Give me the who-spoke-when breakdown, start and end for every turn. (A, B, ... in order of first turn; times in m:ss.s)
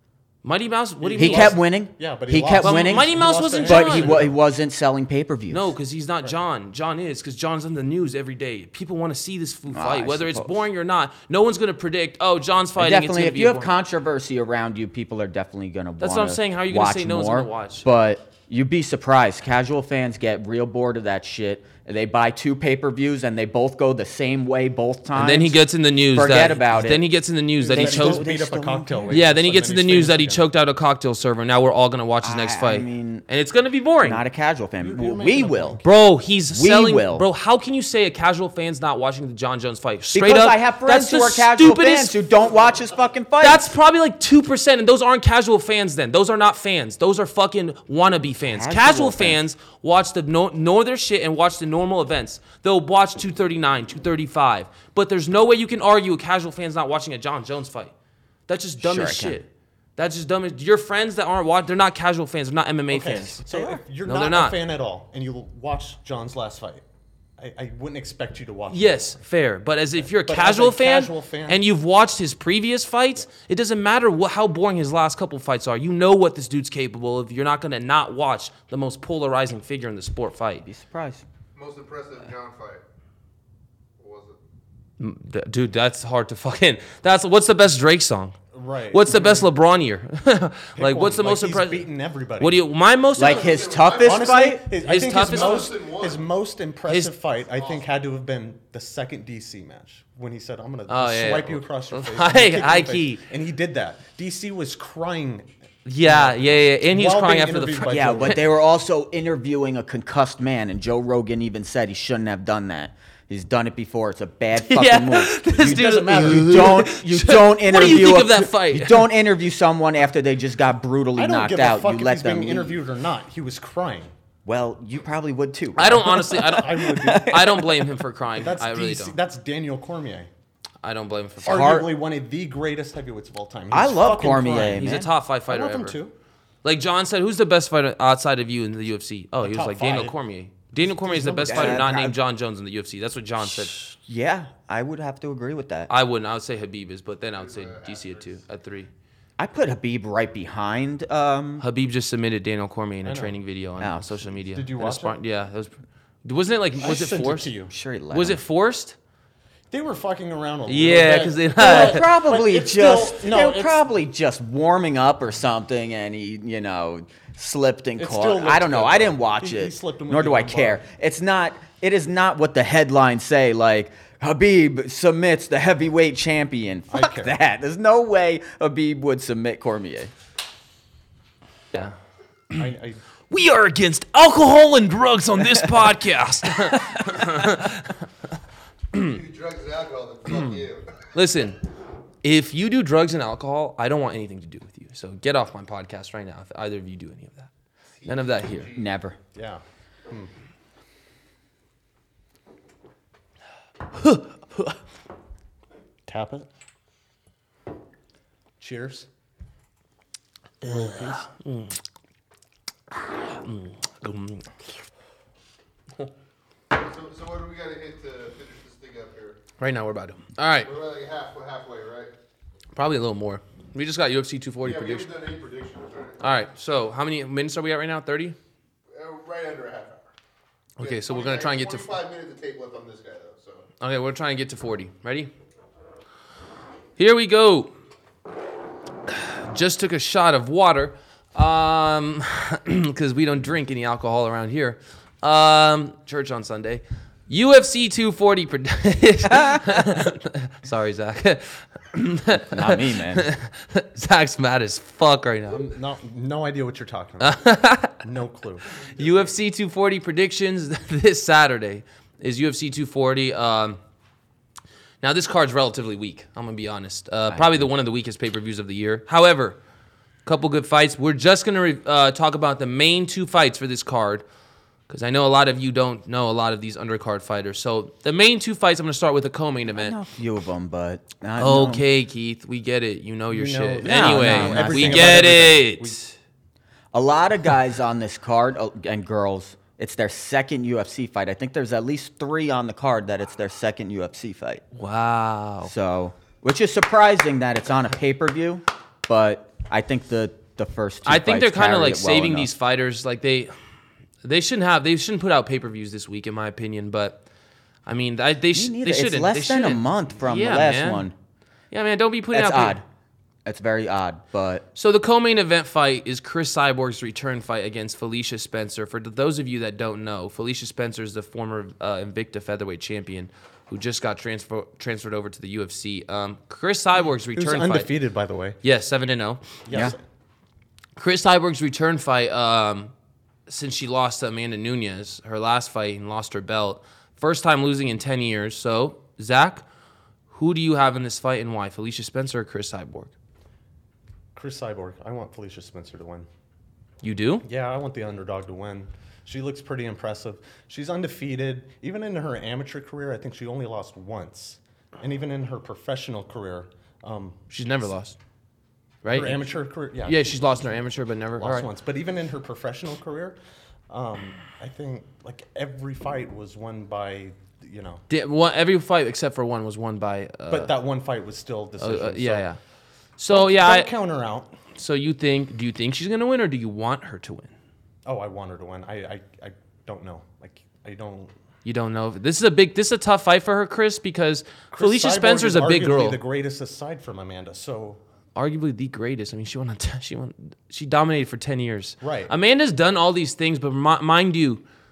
0:00.4-0:01.6 A
0:01.0-0:04.3 B
0:01.2-0:05.7 C
0:02.6-0:04.2 A
0:05.5-0:13.7 A
0:09.7-0:10.6 C
0:12.8-0:25.6 C
0:16.0-0:17.8 A
0:25.1-0:28.2 A
0:26.1-0:27.0 C
0:27.6-0:30.4 B
0:27.7-0:29.2 C
0:29.1-0:34.2 A
0:32.2-0:33.2 C
0:34.0-0:35.8 C
0:34.8-0:35.8 B
0:35.8-0:42.2 A
0:36.5-0:37.2 C
0:40.1-0:43.7 C
0:43.4-0:57.9 A
0:48.4-0:49.4 C
0:58.5-1:03.4 A
0:58.8-0:59.4 C
1:02.9-1:06.8 B
1:03.4-1:03.8 C
1:04.0-1:04.6 A
1:07.4-1:09.2 B
1:08.7-1:20.6 A
1:10.0-1:11.6 B
1:20.6-1:21.2 C
1:21.6-1:22.8 D
1:24.0-1:24.4 D
1:25.0-1:28.3 A
1:28.5-1:29.5 B
1:28.9-1:31.9 A
1:30.8-1:32.6 B
1:32.4-1:33.7 A
1:33.2-1:34.7 C
1:33.2-1:34.5 D
1:34.0-1:45.5 B
1:34.8-1:35.7 A
1:35.1-1:36.2 D
1:37.5-1:37.8 D
1:40.9-1:43.2 A
1:45.8-1:48.4 A
1:46.0-1:48.4 B
1:47.9-2:02.8 C
1:54.6-1:59.1 A
1:55.5-1:56.8 B
2:01.2-2:04.1 B
2:04.4-2:07.9 C
2:05.8-2:09.2 A
2:05.8-2:07.5 B
2:08.4-2:10.3 B
2:10.8-2:11.8 A
2:11.4-2:11.9 C
2:11.4-2:16.1 B
2:13.7-2:15.1 C
2:14.7-2:16.0 A
2:16.6-2:23.9 A
2:19.4-2:20.2 B
2:20.8-2:21.9 B
2:21.4-2:22.2 C
2:23.9-2:25.9 C
2:25.9-2:28.9 A
2:27.4-2:28.4 D
2:29.4-2:31.6 C
2:31.6-2:35.7 A
2:33.0-2:33.3 B
2:33.8-2:34.2 C
2:34.5-2:35.2 B
2:36.2-2:37.5 A
2:36.8-2:37.7 B
2:37.7-2:38.4 C
2:38.1-2:39.0 A
2:39.7-2:43.8 B
2:40.7-2:42.0 A
2:41.6-3:00.1 C
2:48.0-2:50.8 B
2:56.9-2:57.4 B
3:02.5-3:03.0 B
3:03.3-3:07.9 A
3:08.9-3:11.0 D
3:11.1-3:11.6 A
3:12.2-3:17.5 A
3:18.0-3:18.9 D
3:18.0-3:18.7 A
3:18.7-3:19.2 C
3:19.3-3:20.3 B
3:23.9-3:24.8 A
3:26.1-3:26.5 B
3:28.6-3:29.1 B
3:30.6-3:31.8 A
3:30.6-3:31.2 B
3:33.0-3:34.5 A
3:36.7-3:39.4 D
3:39.6-3:40.7 A
3:40.6-3:42.1 D
3:42.8-3:45.1 A
3:44.6-3:46.4 D
3:46.2-3:48.4 A
3:48.9-3:50.0 D
3:50.8-3:51.9 A
3:50.8-3:53.6 D
3:53.8-3:55.3 A
3:57.0-3:57.7 A
3:59.1-4:15.6 A
4:12.4-4:13.3 C
4:15.5-4:18.7 B
4:17.2-4:18.0 A
4:18.8-4:19.3 D
4:18.9-4:23.8 A
4:25.0-4:29.6 A
4:27.3-4:27.7 C
4:30.2-4:34.2 A
4:34.9-4:40.0 A
4:39.7-4:41.8 C
4:41.4-4:46.1 A
4:43.3-4:46.0 B
4:43.8-4:45.5 C
4:46.9-4:54.6 C
4:54.7-4:55.7 A
4:55.6-5:02.5 C
5:01.0-5:03.5 A
5:04.2-5:07.2 A
5:07.8-5:11.1 A
5:08.5-5:11.1 C
5:11.7-5:12.8 A
5:12.3-5:12.8 C
5:13.4-5:14.6 C
5:14.7-5:27.9 A
5:27.3-5:28.6 B
5:28.6-5:29.4 A
5:29.6-5:30.0 B
5:31.0-5:32.9 A
5:33.5-5:39.6 A
5:40.3-5:43.1 A
5:44.3-5:46.3 B
5:47.0-5:47.4 A
5:47.4-5:57.4 B
5:57.5-5:58.2 A
5:59.0-5:59.4 A
5:59.1-6:00.7 B
6:00.0-6:01.7 A
6:01.4-6:03.4 B
6:03.9-6:08.0 B
6:08.1-6:10.7 A
6:10.5-6:12.5 B
6:11.8-6:12.6 A
6:13.2-6:13.9 A
6:13.3-6:14.5 B
6:14.7-6:17.5 A
6:18.0-6:21.3 B
6:21.6-6:26.2 A
6:24.7-6:28.0 B
6:28.3-6:34.6 A
6:32.0-6:32.3 B